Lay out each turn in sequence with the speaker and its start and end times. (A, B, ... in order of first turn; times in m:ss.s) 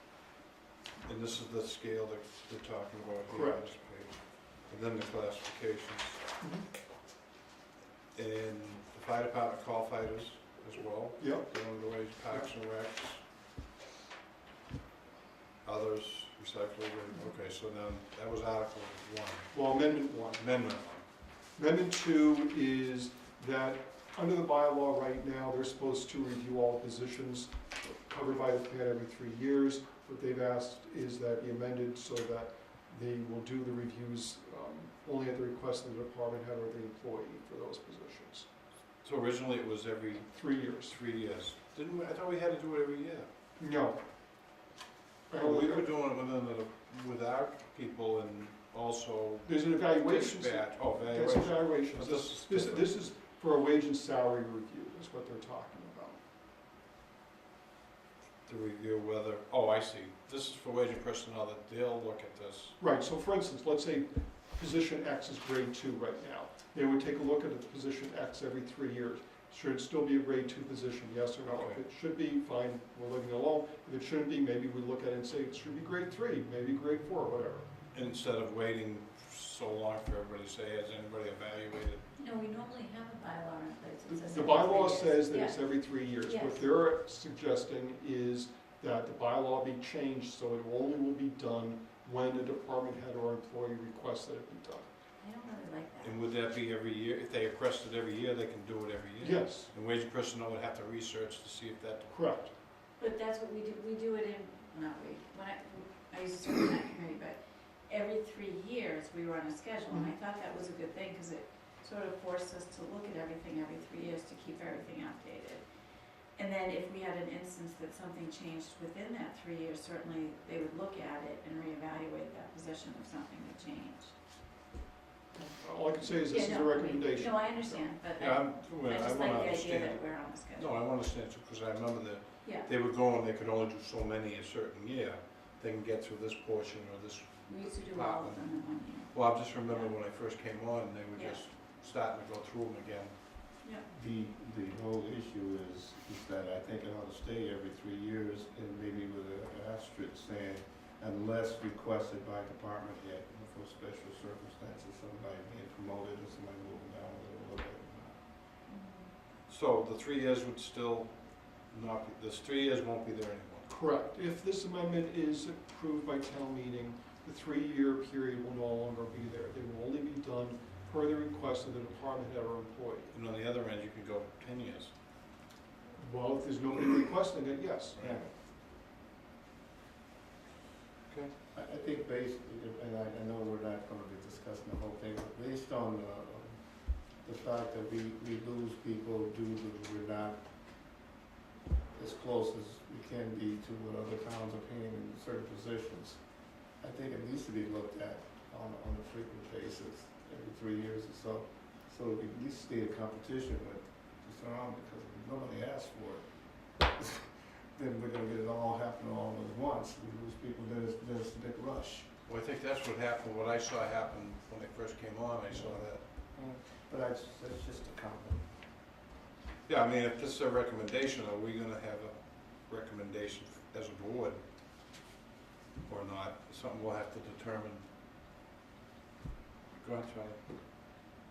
0:01.0-0:06.2 A
0:03.3-0:03.7 B
0:06.4-0:06.7 B
0:08.1-0:13.2 A
0:11.2-0:11.5 B
0:15.6-0:19.5 A
0:19.5-0:20.4 B
0:20.4-0:21.0 A
0:21.6-0:38.5 B
0:39.0-0:43.3 A
0:40.3-0:40.9 B
0:43.6-0:44.0 B
0:45.3-0:45.9 B
0:45.3-0:52.9 A
0:49.4-0:56.2 B
0:58.4-1:02.8 A
1:02.8-1:17.7 B
1:11.5-1:11.8 A
1:17.9-1:22.0 A
1:22.2-1:26.6 C
1:24.1-1:34.9 B
1:35.2-1:36.2 C
1:36.0-1:42.1 A
1:39.2-1:39.7 B
1:42.1-1:42.5 B
1:43.0-1:55.7 C
1:56.4-2:04.2 C
2:05.4-2:07.9 B
2:06.0-2:10.7 C
2:08.2-2:23.2 A
2:17.5-2:19.9 C
2:21.2-2:21.4 C
2:23.9-2:38.2 D
2:38.7-2:39.1 C
2:39.5-2:43.7 A
2:43.7-2:53.1 B
2:53.1-2:54.9 A
2:56.0-2:58.3 B
3:01.5-3:10.5 D
3:11.9-3:32.1 D
3:32.3-3:36.0 A
3:35.5-3:38.5 D
3:39.7-3:44.4 A
3:45.8-3:47.9 A
3:49.7-3:50.4 A